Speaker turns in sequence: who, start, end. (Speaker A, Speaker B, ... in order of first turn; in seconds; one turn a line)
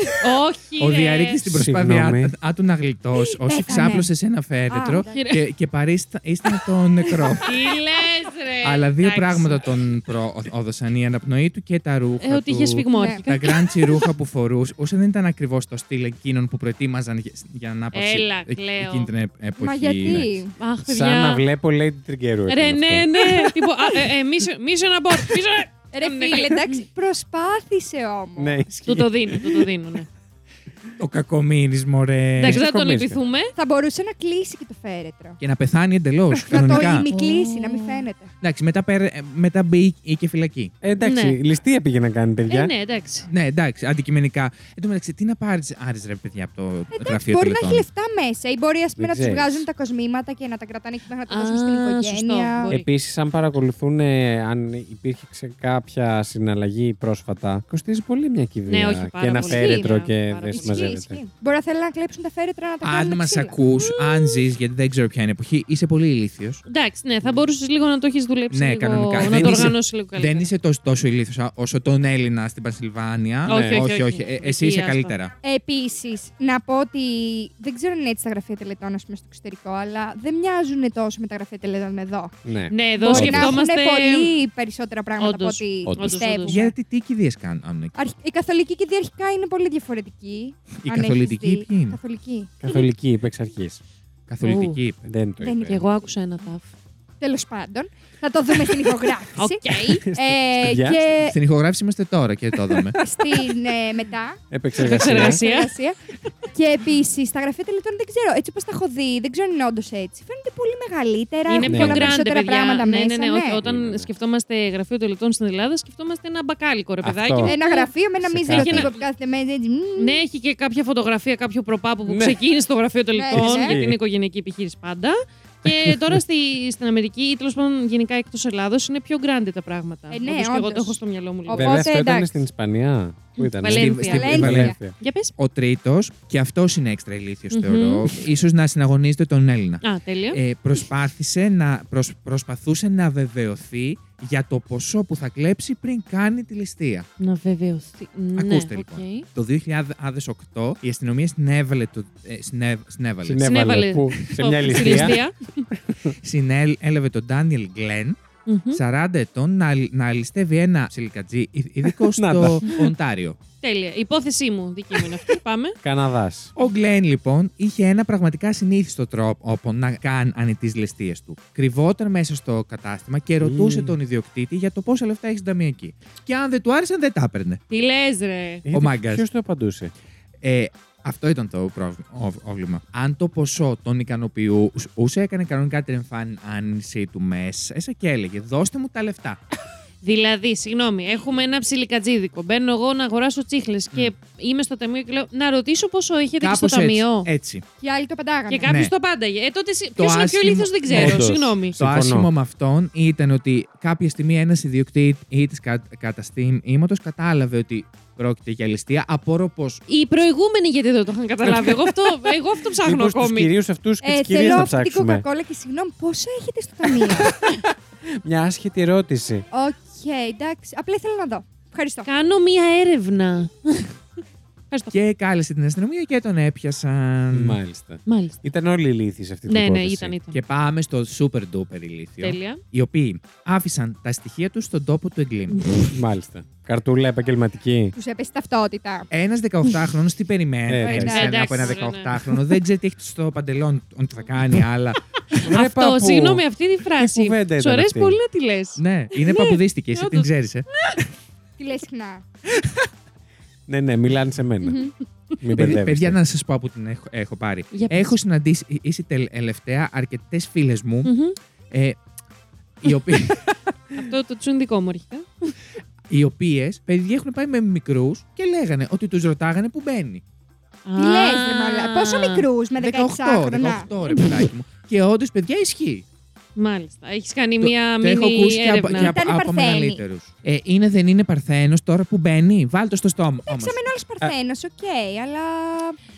Speaker A: 0.2-1.4
Speaker B: 0.8-7.7
Speaker C: 1.4-2.3
Speaker D: 3.2-4.1
Speaker D: 4.7-5.2
Speaker A: 4.7-5.5
Speaker A: 7.4-9.8
Speaker B: 8.6-20.4
Speaker A: 12.2-13.9
Speaker D: 12.9-13.3
Speaker A: 17.9-19.1
Speaker D: 19.6-20.5
Speaker A: 20.6-21.4
Speaker C: 20.9-23.2
Speaker A: 22.5-26.7
Speaker D: 25.9-28.7
Speaker C: 28.4-29.7
Speaker A: 28.9-30.1
Speaker B: 31.0-32.6
Speaker C: 32.4-33.2
Speaker A: 32.4-33.5
Speaker D: 33.6-35.4
Speaker B: 35.4-37.1
Speaker D: 36.4-38.3
Speaker C: 36.5-38.0
Speaker B: 38.4-40.7
Speaker C: 40.8-42.7
Speaker A: 41.0-41.4
Speaker A: 42.5-43.3
Speaker B: 43.3-47.9
Speaker D: 46.9-52.7
Speaker C: 49.0-49.6
Speaker A: 51.3-52.9
Speaker C: 52.7-61.2
Speaker A: 58.7-61.0
Speaker D: 59.4-60.0
Speaker D: 60.5-63.6
Speaker B: 62.8-66.6
Speaker A: 63.8-64.2
Speaker A: 66.6-70.5
Speaker B: 68.5-75.3
Speaker C: 69.2-69.8
Speaker A: 73.5-75.2
Speaker C: 73.5-73.8
Speaker D: 75.4-82.3
Speaker C: 82.5-83.6
Speaker A: 82.7-84.3
Speaker D: 83.0-86.7
Speaker A: 85.2-86.7
Speaker C: 85.8-86.2
Speaker B: 86.5-88.0
Speaker D: 88.0-92.5
Speaker B: 90.8-92.0
Speaker C: 92.6-93.8
Speaker B: 94.3-95.0
Speaker A: 94.4-94.8
Speaker C: 95.0-95.8
Speaker D: 95.4-96.0
Speaker A: 95.7-96.7
Speaker D: 97.2-101.4
Speaker A: 99.4-100.0
Speaker C: 100.0-101.1
Speaker B: 101.3-103.0
Speaker D: 103.0-104.4
Speaker C: 103.0-103.5
Speaker C: 104.5-105.4
Speaker A: 104.8-105.8
Speaker D: 105.0-113.6
Speaker A: 111.5-117.9
Speaker C: 111.6-112.2
Speaker C: 113.6-114.1
Speaker C: 117.0-117.6
Speaker D: 117.4-120.2
Speaker C: 118.2-118.9
Speaker A: 118.5-119.0
Speaker A: 120.0-131.9
Speaker C: 122.1-122.4
Speaker D: 123.2-123.8
Speaker C: 123.3-124.0
Speaker C: 125.7-126.2
Speaker D: 130.1-132.3
Speaker C: 131.5-134.9
Speaker A: 133.4-134.4
Speaker B: 133.7-134.8
Speaker D: 134.0-134.8
Speaker A: 135.0-135.3
Speaker B: 135.4-147.1
Speaker A: 137.5-138.2
Speaker A: 139.8-140.4
Speaker A: 147.2-149.3
Speaker B: 148.4-153.6
Speaker C: 153.2-155.2
Speaker A: 153.4-155.4
Speaker B: 154.7-155.2
Speaker C: 155.7-156.2
Speaker B: 156.2-158.2
Speaker A: 158.5-158.8
Speaker B: 158.7-163.4
Speaker C: 161.9-162.9
Speaker A: 163.6-165.8
Speaker C: 164.9-166.5
Speaker B: 166.6-177.6
Speaker C: 173.4-174.0
Speaker A: 177.7-178.7
Speaker C: 178.7-179.9
Speaker B: 178.7-179.2
Speaker B: 180.4-189.4
Speaker A: 190.0-197.3
Speaker B: 196.4-197.6
Speaker D: 197.8-198.7
Speaker A: 198.5-201.8
Speaker B: 198.7-198.9
Speaker B: 200.0-209.8
Speaker C: 200.9-202.3
Speaker A: 209.9-213.5
Speaker C: 211.5-212.0
Speaker C: 212.8-215.2
Speaker D: 214.0-217.3
Speaker C: 218.2-219.5
Speaker D: 219.5-222.1
Speaker A: 222.1-223.9
Speaker B: 224.9-227.6
Speaker C: 227.3-230.1
Speaker A: 228.1-228.4
Speaker A: 229.5-230.4
Speaker B: 230.3-235.7
Speaker A: 232.2-232.6
Speaker C: 235.7-238.0
Speaker D: 237.9-239.1
Speaker B: 239.1-245.0
Speaker C: 240.7-241.2
Speaker D: 240.8-241.7
Speaker A: 241.1-242.2
Speaker A: 245.3-251.0
Speaker C: 245.3-248.2
Speaker B: 248.8-250.7
Speaker D: 251.6-252.2
Speaker C: 253.7-254.8
Speaker A: 254.6-254.9
Speaker C: 255.4-256.2
Speaker B: 255.5-261.1
Speaker A: 257.7-258.2
Speaker A: 261.1-261.4
Speaker B: 261.7-262.0
Speaker B: 262.8-263.6
Speaker A: 263.9-265.5
Speaker B: 266.1-270.2
Speaker A: 270.9-272.4
Speaker D: 271.0-274.4
Speaker B: 272.8-276.1
Speaker A: 276.6-279.1
Speaker B: 277.6-283.9
Speaker D: 278.9-280.0
Speaker D: 283.5-286.0